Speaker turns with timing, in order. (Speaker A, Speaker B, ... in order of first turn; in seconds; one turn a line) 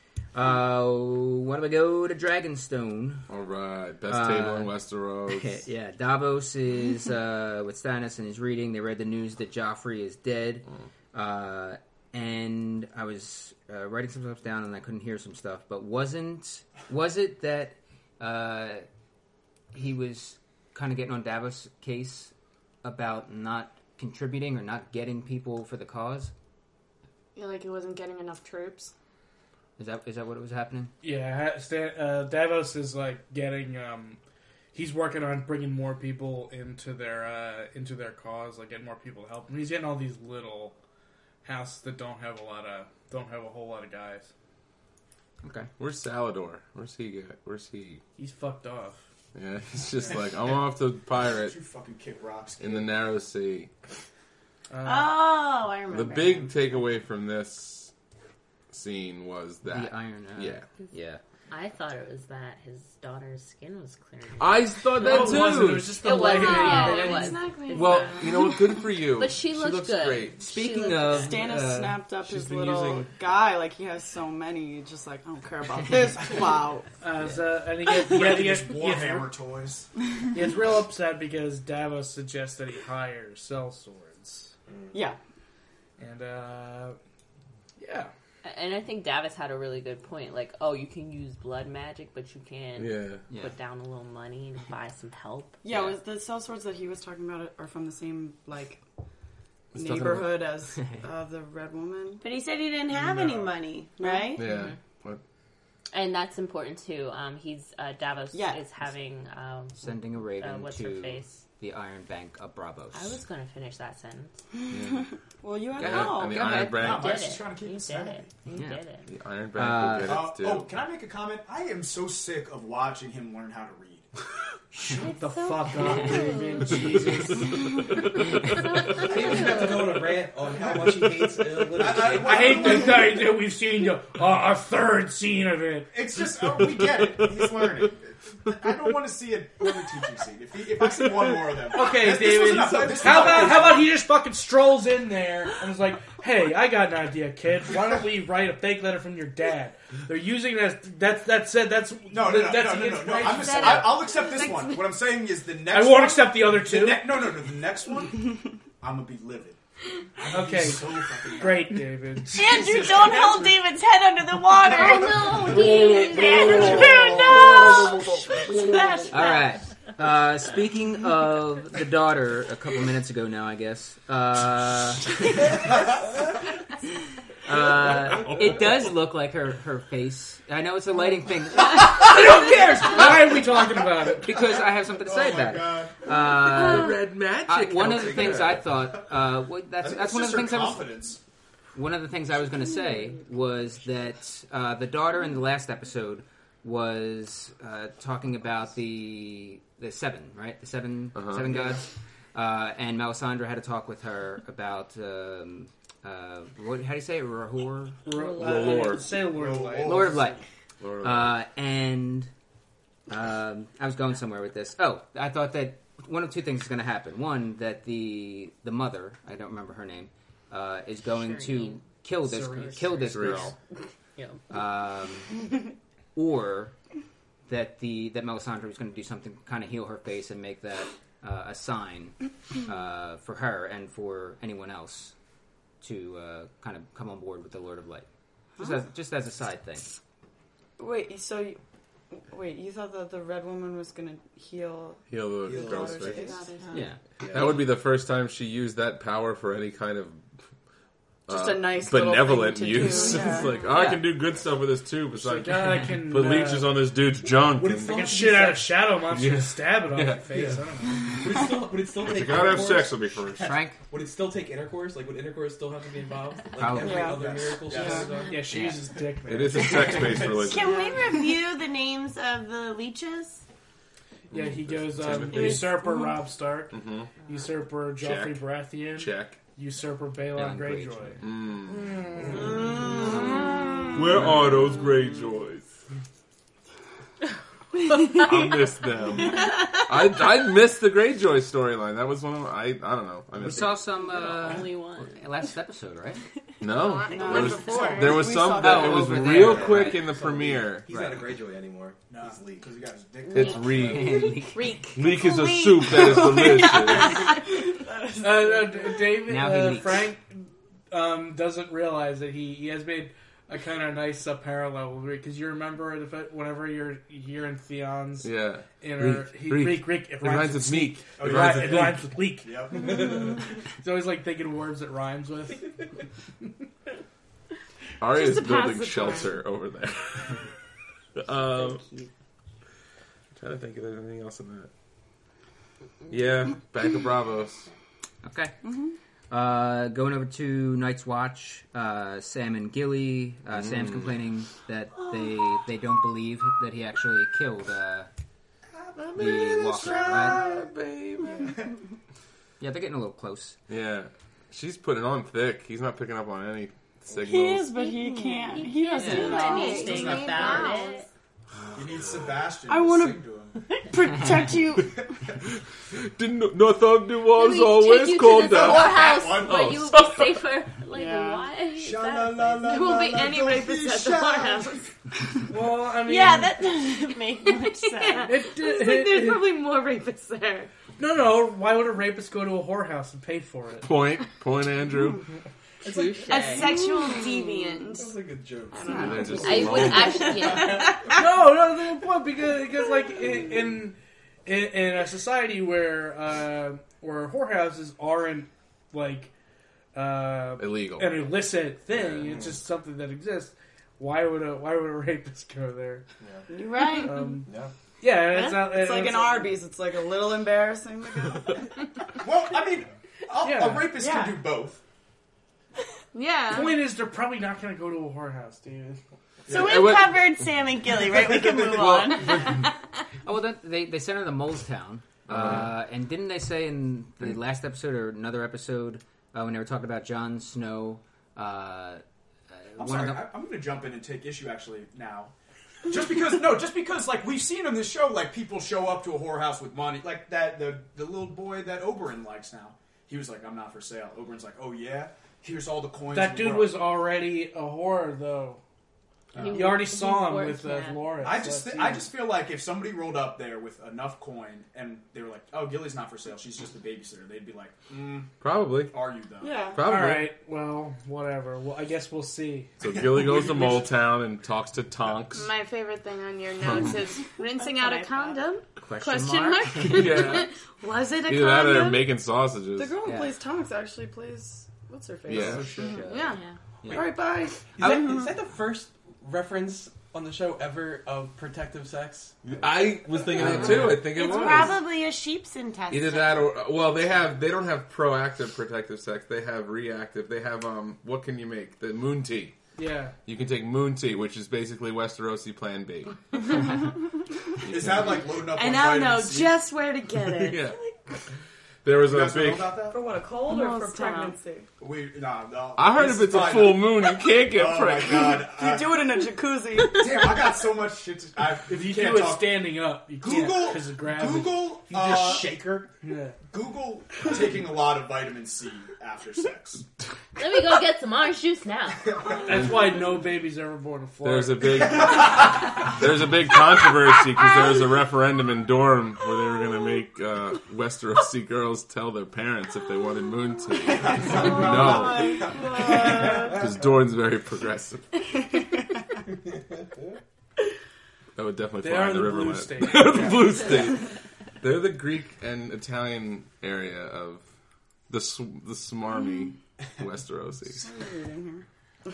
Speaker A: 0.3-3.3
Speaker B: 3.3-5.6
Speaker A: 4.1-18.9
Speaker A: 19.7-22.3
Speaker A: 22.8-26.3
Speaker C: 27.3-28.9
Speaker A: 29.8-30.9
Speaker D: 31.0-34.2
Speaker D: 34.7-40.8
Speaker D: 41.4-44.3
Speaker A: 45.4-45.7
Speaker B: 45.8-48.0
Speaker D: 48.2-49.0
Speaker B: 49.3-51.5
Speaker E: 51.2-53.0
Speaker B: 52.6-53.7
Speaker D: 54.7-55.2
Speaker F: 54.8-56.6
Speaker B: 55.9-57.9
Speaker B: 58.7-60.7
Speaker A: 59.6-61.2
Speaker G: 61.5-71.4
Speaker B: 64.4-66.1
Speaker D: 64.9-67.4
Speaker C: 66.3-68.8
Speaker B: 67.7-70.5
Speaker A: 70.4-72.0
Speaker H: 71.1-76.9
Speaker B: 72.5-73.0
Speaker D: 77.0-79.3
Speaker E: 78.0-79.9
Speaker D: 80.3-84.5
Speaker I: 84.7-85.0
Speaker H: 84.9-85.2
Speaker D: 86.0-87.0
Speaker D: 87.8-88.1
Speaker G: 88.4-95.6
Speaker B: 92.8-93.2
Speaker H: 95.6-98.8
Speaker A: 95.7-96.0
Speaker H: 99.7-102.2
Speaker A: 99.8-101.0
Speaker F: 102.2-104.4
Speaker B: 102.9-103.4
Speaker H: 104.0-104.3
Speaker B: 104.3-105.2
Speaker G: 104.4-104.8
Speaker G: 105.9-111.4
Speaker H: 108.3-108.6
Speaker A: 109.8-113.2
Speaker G: 112.9-114.4
Speaker H: 114.5-116.6
Speaker B: 114.7-115.0
Speaker B: 115.8-117.5
Speaker A: 115.8-117.0
Speaker E: 116.7-118.3
Speaker G: 116.8-119.1
Speaker A: 118.5-118.8
Speaker B: 119.1-120.7
Speaker A: 119.5-120.3
Speaker E: 120.0-124.1
Speaker D: 124.8-128.2
Speaker G: 125.8-126.4
Speaker I: 129.0-132.8
Speaker E: 130.4-133.3
Speaker D: 132.0-135.9
Speaker E: 135.9-143.9
Speaker B: 136.6-137.8
Speaker D: 141.7-154.0
Speaker I: 142.1-143.8
Speaker E: 152.1-159.6
Speaker C: 153.2-154.9
Speaker D: 155.7-157.2
Speaker E: 160.2-161.8
Speaker D: 160.2-163.3
Speaker F: 162.3-169.4
Speaker E: 162.4-163.4
Speaker G: 164.6-167.2
Speaker H: 165.6-168.4
Speaker A: 169.1-175.7
Speaker A: 177.4-181.9
Speaker B: 178.0-178.7
Speaker D: 181.7-184.3
Speaker A: 184.2-190.9
Speaker E: 184.9-186.3
Speaker B: 186.4-188.7
Speaker E: 189.8-191.2
Speaker A: 191.7-208.0
Speaker B: 201.1-201.6
Speaker D: 208.0-210.2
Speaker G: 208.1-209.1
Speaker B: 208.3-209.0
Speaker E: 209.1-210.4
Speaker A: 209.8-210.4
Speaker B: 210.8-211.4
Speaker A: 211.0-212.3
Speaker A: 213.1-223.5
Speaker G: 221.1-223.4
Speaker D: 222.3-223.3
Speaker B: 223.0-223.5
Speaker G: 224.2-224.4
Speaker A: 224.5-225.4
Speaker A: 226.1-226.7
Speaker A: 227.5-235.1
Speaker A: 235.8-239.9
Speaker H: 240.8-246.8
Speaker B: 245.1-246.3
Speaker I: 245.4-246.5
Speaker F: 246.6-246.8
Speaker A: 246.7-247.0
Speaker I: 247.2-247.7
Speaker B: 247.3-250.2
Speaker B: 251.3-258.0
Speaker H: 251.3-253.5
Speaker A: 253.7-254.1
Speaker D: 255.1-256.9
Speaker I: 257.6-258.6
Speaker D: 257.8-261.2
Speaker E: 257.9-258.4
Speaker B: 259.0-260.5
Speaker I: 260.3-263.2
Speaker B: 262.0-263.5
Speaker A: 263.4-263.8
Speaker I: 263.9-268.3
Speaker A: 266.6-267.1
Speaker H: 266.8-267.2
Speaker E: 266.8-268.2
Speaker D: 268.2-270.1
Speaker A: 268.5-268.8
Speaker B: 269.3-270.8
Speaker E: 269.3-270.6
Speaker F: 270.4-273.4
Speaker B: 274.3-275.9
Speaker D: 274.3-281.2
Speaker B: 276.7-277.1
Speaker B: 278.0-279.4
Speaker A: 280.3-281.3
Speaker B: 281.2-282.5
Speaker D: 282.0-282.6
Speaker F: 282.3-284.0
Speaker B: 283.9-285.7
Speaker B: 287.9-293.8
Speaker A: 293.4-296.2
Speaker G: 294.2-295.1
Speaker B: 296.6-300.9
Speaker C: 296.7-298.3
Speaker H: 297.1-299.3
Speaker A: 298.5-300.1
Speaker I: 299.1-302.7
Speaker A: 300.9-301.2
Speaker E: 302.1-304.3
Speaker B: 303.3-304.4
Speaker A: 303.7-304.6
Speaker C: 304.6-305.4
Speaker F: 304.6-306.7
Speaker B: 304.9-307.3
Speaker H: 306.0-308.9
Speaker D: 308.1-325.8
Speaker A: 309.3-310.0
Speaker B: 318.2-322.0
Speaker E: 321.1-323.0
Speaker B: 328.0-330.4
Speaker C: 328.1-329.4
Speaker B: 331.1-331.8
Speaker B: 333.4-334.7
Speaker B: 336.1-337.7
Speaker A: 338.2-338.5
Speaker H: 338.6-338.9
Speaker A: 339.3-348.1
Speaker B: 343.5-344.2
Speaker B: 348.9-351.5
Speaker A: 349.2-350.4
Speaker A: 352.6-353.6
Speaker B: 353.7-357.7
Speaker F: 357.2-357.7
Speaker H: 357.4-360.5
Speaker C: 357.8-361.0
Speaker G: 358.4-361.1
Speaker A: 359.0-359.4
Speaker E: 359.5-360.8
Speaker E: 361.7-363.7
Speaker H: 362.7-363.2
Speaker H: 363.8-365.0
Speaker B: 365.5-370.3
Speaker G: 367.3-373.0
Speaker E: 368.5-369.9
Speaker H: 370.9-371.5
Speaker E: 371.8-374.8
Speaker C: 372.6-374.8
Speaker D: 375.5-376.6
Speaker F: 376.0-378.3
Speaker C: 377.3-380.7
Speaker D: 378.2-379.6
Speaker D: 381.0-383.9
Speaker B: 383.8-385.2
Speaker I: 385.8-386.6
Speaker G: 385.9-386.9
Speaker C: 386.2-388.0
Speaker F: 386.3-387.9
Speaker I: 387.9-390.2
Speaker H: 388.7-389.3
Speaker C: 388.8-389.1
Speaker B: 389.0-390.5
Speaker G: 389.4-391.0
Speaker F: 390.2-391.0
Speaker D: 391.1-399.3
Speaker D: 399.9-406.0
Speaker B: 400.6-401.1
Speaker B: 401.9-402.4
Speaker F: 406.5-407.4
Speaker D: 407.0-409.5
Speaker I: 407.4-407.7
Speaker F: 408.2-408.7
Speaker H: 408.6-411.6
Speaker E: 412.1-414.8
Speaker D: 413.4-414.0
Speaker H: 414.0-414.4
Speaker C: 416.1-416.8
Speaker D: 416.5-419.0
Speaker E: 419.5-419.8
Speaker F: 419.5-422.6
Speaker B: 419.5-420.5
Speaker B: 421.3-422.6
Speaker A: 423.2-433.3
Speaker B: 425.3-425.7
Speaker E: 432.8-435.3
Speaker E: 435.9-446.8
Speaker D: 446.1-448.6
Speaker E: 449.3-449.7
Speaker G: 449.3-451.2
Speaker D: 449.4-452.1
Speaker E: 451.2-459.7
Speaker B: 458.4-458.9
Speaker H: 459.4-459.8
Speaker B: 459.7-460.3
Speaker D: 459.8-462.7
Speaker B: 462.8-465.5
Speaker E: 462.9-463.9
Speaker C: 465.3-472.1
Speaker B: 466.6-467.0
Speaker H: 466.8-468.4
Speaker A: 468.8-470.4
Speaker B: 469.8-470.5
Speaker B: 471.2-472.9
Speaker H: 472.8-476.1
Speaker A: 473.0-473.3
Speaker B: 475.3-475.7
Speaker A: 475.4-477.1
Speaker I: 475.5-476.0
Speaker C: 476.0-476.4
Speaker G: 476.2-476.6
Speaker H: 476.9-477.6
Speaker I: 477.7-484.0
Speaker F: 477.8-478.3
Speaker B: 482.4-484.8
Speaker A: 483.4-484.1
Speaker F: 483.9-486.5
Speaker B: 485.9-492.6
Speaker D: 492.8-493.2
Speaker B: 493.2-496.2
Speaker E: 497.6-499.6
Speaker B: 497.6-498.1
Speaker C: 498.5-500.7
Speaker B: 500.4-500.8
Speaker B: 501.8-502.8
Speaker E: 502.0-503.0
Speaker H: 502.9-504.7
Speaker C: 503.4-504.4
Speaker E: 504.8-509.3
Speaker B: 505.8-508.4
Speaker H: 508.1-510.4
Speaker E: 509.9-512.6
Speaker D: 511.7-515.4
Speaker E: 513.2-515.9
Speaker D: 516.0-516.4
Speaker E: 516.5-519.9
Speaker G: 520.4-522.3
Speaker D: 522.3-525.0
Speaker B: 524.2-538.1
Speaker E: 525.0-525.7
Speaker E: 533.9-536.4
Speaker H: 534.4-535.6
Speaker B: 541.4-547.4
Speaker D: 541.8-543.6
Speaker B: 548.1-550.9
Speaker H: 550.8-551.6